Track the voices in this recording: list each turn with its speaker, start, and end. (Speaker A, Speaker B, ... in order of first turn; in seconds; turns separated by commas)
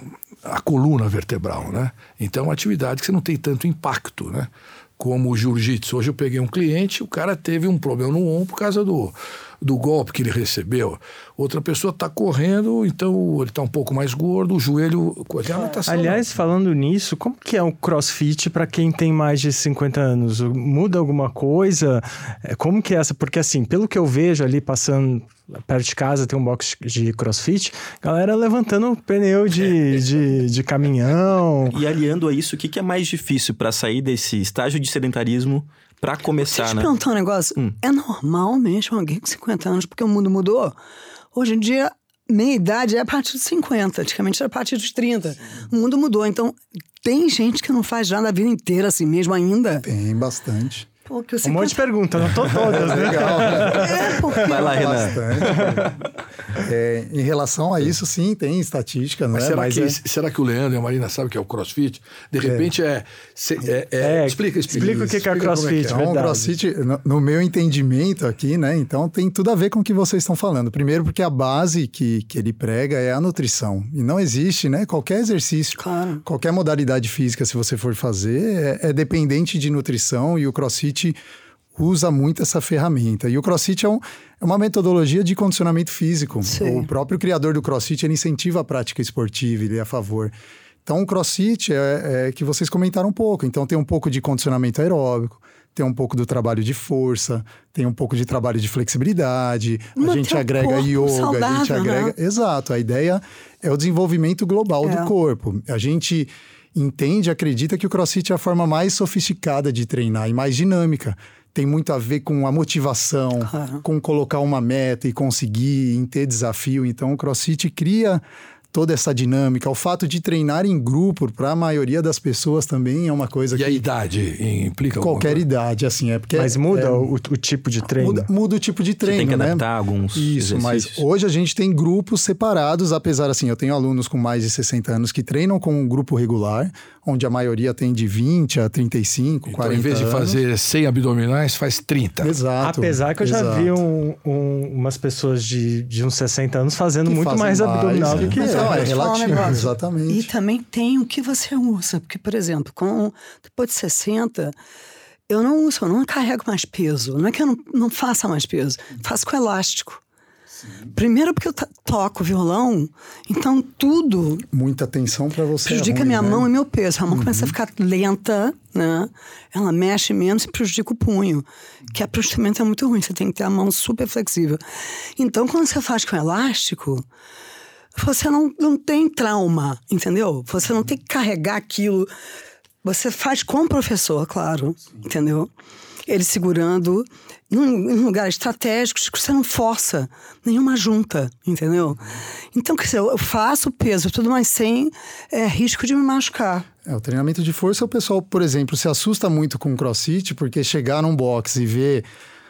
Speaker A: 0.4-16.3, Speaker B: 15.5-15.8, Speaker C: 15.9-31.8, Speaker D: 31.7-36.9, Speaker B: 36.4-40.8, Speaker B: 41.3-49.8, Speaker E: 49.8-50.9, Speaker B: 51.1-51.8, Speaker C: 51.4-54.3, Speaker A: 52.7-53.7, Speaker E: 52.7-55.9, Speaker B: 53.7-55.1, Speaker D: 54.4-55.9, Speaker E: 56.5-60.0, Speaker A: 59.3-66.0, Speaker E: 62.4-62.7, Speaker C: 64.0-66.5, Speaker E: 64.7-81.2, Speaker B: 75.8-76.2, Speaker E: 81.8-90.3, Speaker B: 86.5-86.9, Speaker E: 90.8-123.8, Speaker B: 100.0-102.1, Speaker B: 104.8-105.1, Speaker B: 113.5-113.8, Speaker A: 123.5-125.4, Speaker E: 125.0-127.1, Speaker C: 126.3-128.3, Speaker E: 127.9-140.4, Speaker D: 129.0-131.1, Speaker A: 139.5-142.3, Speaker E: 142.2-143.8, Speaker C: 142.6-148.9, Speaker E: 147.1-150.3, Speaker B: 148.4-154.6, Speaker B: 155.3-160.0, Speaker B: 160.9-164.4, Speaker E: 164.5-166.5, Speaker B: 165.7-174.6, Speaker E: 167.1-167.6, Speaker B: 175.2-177.0, Speaker B: 177.9-182.1, Speaker B: 182.8-185.5, Speaker B: 186.1-192.0, Speaker B: 192.5-196.7, Speaker E: 196.9-202.1